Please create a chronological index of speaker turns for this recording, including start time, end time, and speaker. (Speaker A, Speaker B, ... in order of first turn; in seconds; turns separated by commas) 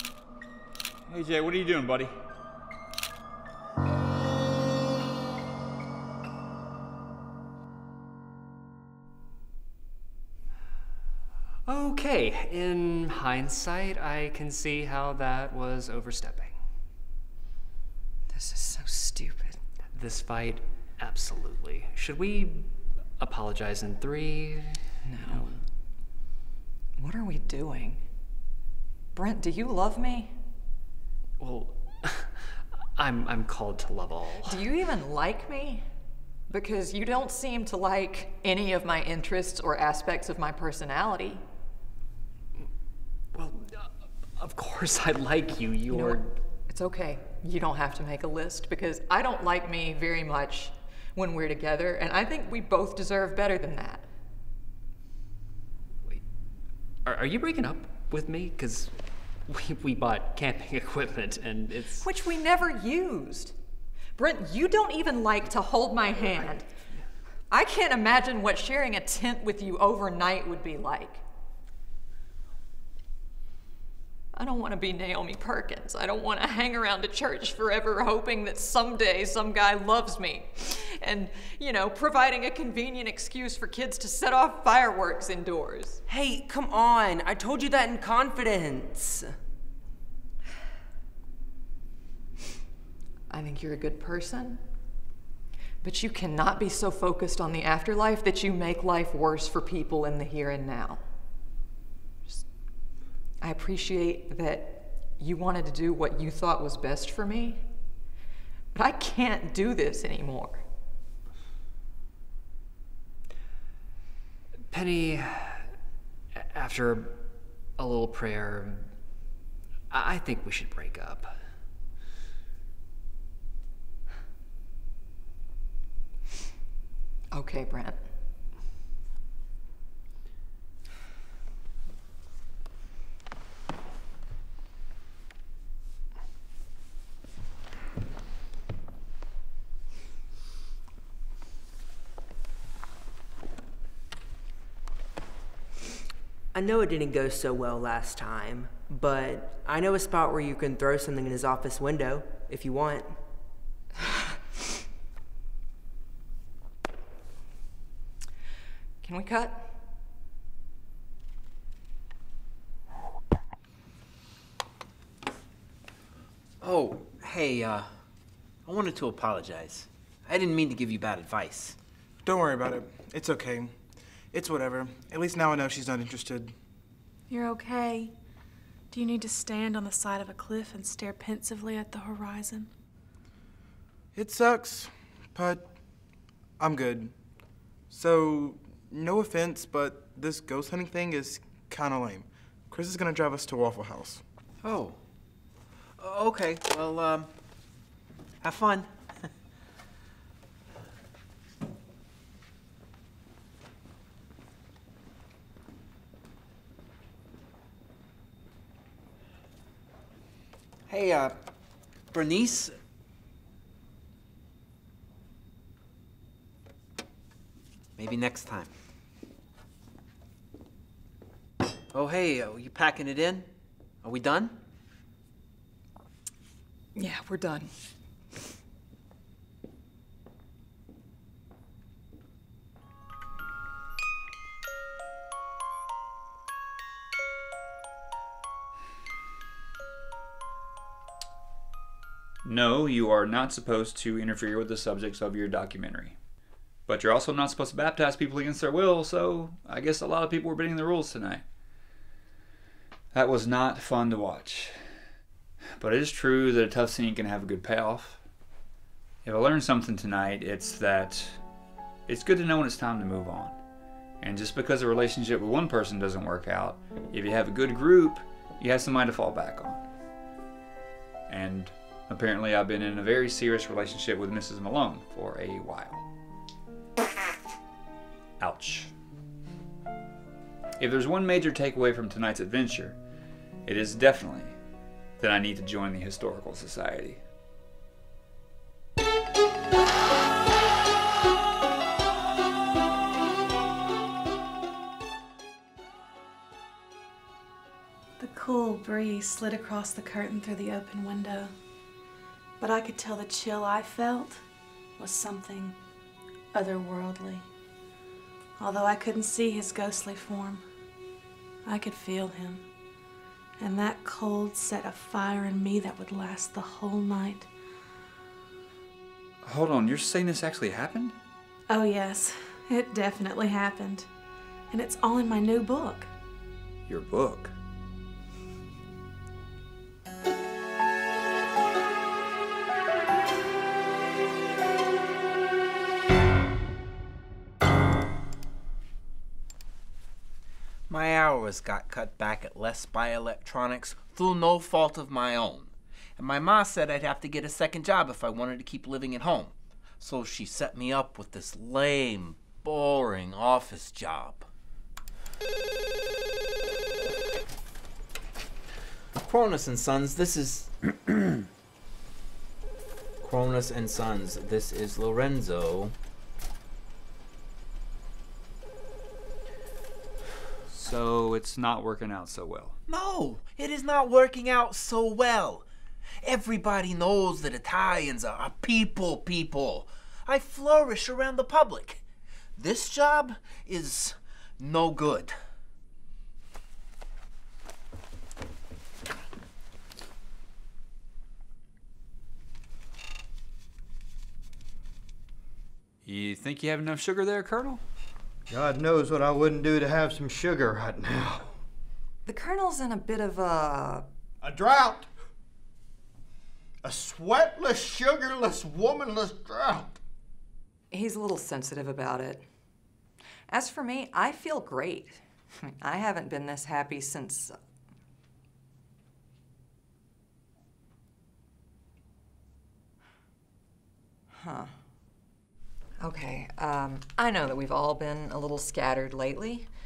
Speaker A: 1.1-2.2, Speaker B: 11.7-16.6, Speaker C: 18.3-19.6, Speaker B: 19.9-25.6, Speaker C: 25.0-25.5, Speaker C: 27.0-28.0, Speaker C: 29.1-30.4, Speaker B: 31.4-34.6, Speaker C: 34.5-35.9, Speaker C: 36.5-41.4, Speaker B: 43.3-46.3, Speaker C: 45.9-54.1, Speaker B: 57.0-62.1, Speaker C: 62.0-63.6, Speaker C: 64.2-66.7, Speaker C: 67.5-71.2, Speaker C: 74.3-86.0, Speaker D: 86.1-89.3, Speaker C: 93.3-94.6, Speaker C: 95.8-101.0, Speaker C: 103.4-107.6, Speaker C: 108.7-110.6, Speaker B: 114.7-115.7, Speaker B: 116.3-117.3, Speaker B: 117.8-118.9, Speaker B: 119.9-121.4, Speaker C: 127.3-128.0, Speaker D: 146.5-153.2, Speaker C: 159.0-159.7, Speaker E: 166.6-168.0, Speaker E: 168.7-171.8, Speaker F: 172.2-173.8, Speaker F: 174.3-176.6, Speaker G: 177.3-178.1, Speaker G: 178.9-182.7, Speaker F: 184.1-185.7, Speaker F: 186.6-187.1, Speaker F: 187.9-194.2, Speaker E: 194.6-195.0, Speaker E: 196.0-197.3, Speaker E: 198.4-199.3, Speaker E: 210.9-211.4, Speaker E: 212.1-212.8, Speaker E: 218.0-218.7, Speaker E: 221.9-223.5, Speaker E: 224.0-224.6, Speaker C: 226.9-227.7, Speaker A: 242.4-246.2, Speaker A: 246.9-251.4, Speaker A: 253.1-254.8, Speaker A: 255.8-258.2, Speaker A: 259.2-261.4, Speaker A: 262.1-263.6, Speaker A: 264.2-269.9, Speaker A: 271.3-276.1, Speaker A: 278.4-278.9, Speaker A: 280.8-283.0, Speaker A: 283.6-284.6, Speaker A: 285.2-287.2, Speaker G: 298.2-301.5, Speaker G: 302.6-304.4, Speaker G: 305.0-305.8, Speaker G: 306.5-307.5, Speaker G: 308.6-310.6, Speaker G: 311.6-312.6, Speaker G: 313.6-317.5, Speaker A: 319.4-321.2, Speaker G: 321.7-324.1, Speaker G: 324.7-326.1, Speaker A: 326.9-327.6, Speaker E: 340.9-354.5, Speaker E: 359.2-360.7, Speaker E: 363.2-365.9, Speaker A: 370.7-372.8, Speaker E: 372.9-375.7, Speaker E: 376.2-382.0, Speaker E: 382.6-385.3, Speaker A: 396.0-397.8, Speaker H: 398.5-401.6, Speaker C: 402.3-404.1, Speaker H: 404.4-405.1, Speaker H: 406.8-410.0, Speaker C: 410.9-412.4, Speaker C: 413.5-417.6, Speaker C: 424.3-424.8, Speaker C: 426.0-429.7